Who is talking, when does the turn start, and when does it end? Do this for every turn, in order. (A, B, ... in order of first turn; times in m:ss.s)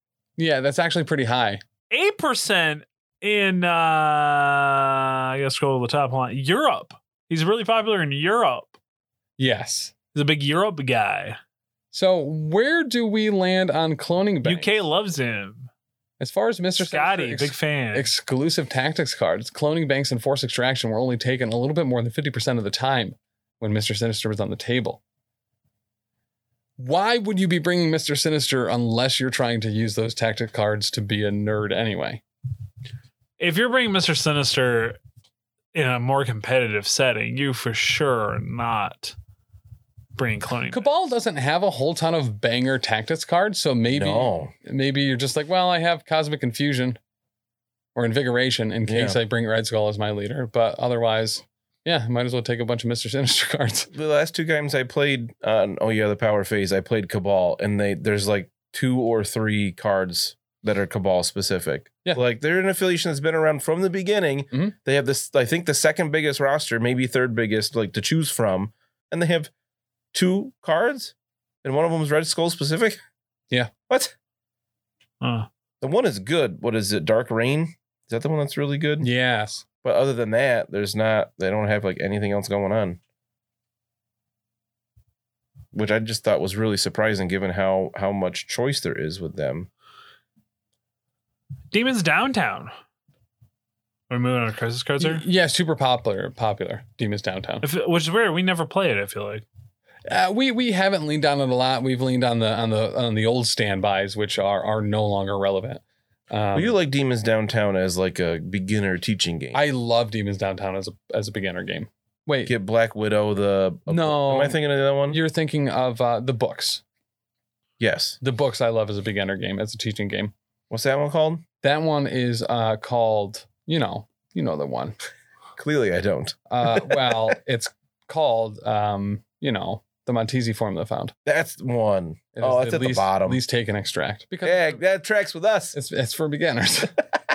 0:00.4-0:01.6 A
0:01.9-0:08.8 B
0:09.4-0:09.9 A
0:10.1-0:11.4 B
0:11.9-0:14.9 A
0:14.4-0:15.7 B
0:16.2-0:25.0 A
0:16.8-0:18.1 B
0:26.8-0:32.2 A
0:33.4-0:35.0 B
0:35.7-0:39.2 B
0:40.2-0:40.9 B
0:40.7-0:47.0 A
0:43.9-0:44.5 C
0:48.0-0:53.9 A
0:48.9-0:49.2 C
0:53.9-1:09.5 C
1:10.1-1:13.0 C
1:13.9-1:14.1 C
1:15.2-1:15.5 B
1:15.8-1:19.1 C
1:19.0-1:19.6 A
1:19.8-1:23.0 C
1:25.7-1:29.7 C
1:31.7-1:32.7 B
1:34.1-1:35.2 B
1:35.0-1:37.6 A
1:37.6-1:39.4 B
1:40.1-1:46.7 A
1:46.5-1:49.6 C
1:49.5-1:52.5 A
1:52.5-1:55.2 C
1:53.9-1:54.6 A
1:55.1-1:56.8 A
1:57.8-1:58.2 C
1:58.2-2:00.3 A
2:00.7-2:01.4 C
2:01.6-2:05.0 A
2:05.6-2:07.4 C
2:06.5-2:11.1 A
2:11.3-2:13.4 C
2:12.4-2:14.8 A
2:14.4-2:15.8 C
2:15.7-2:17.0 A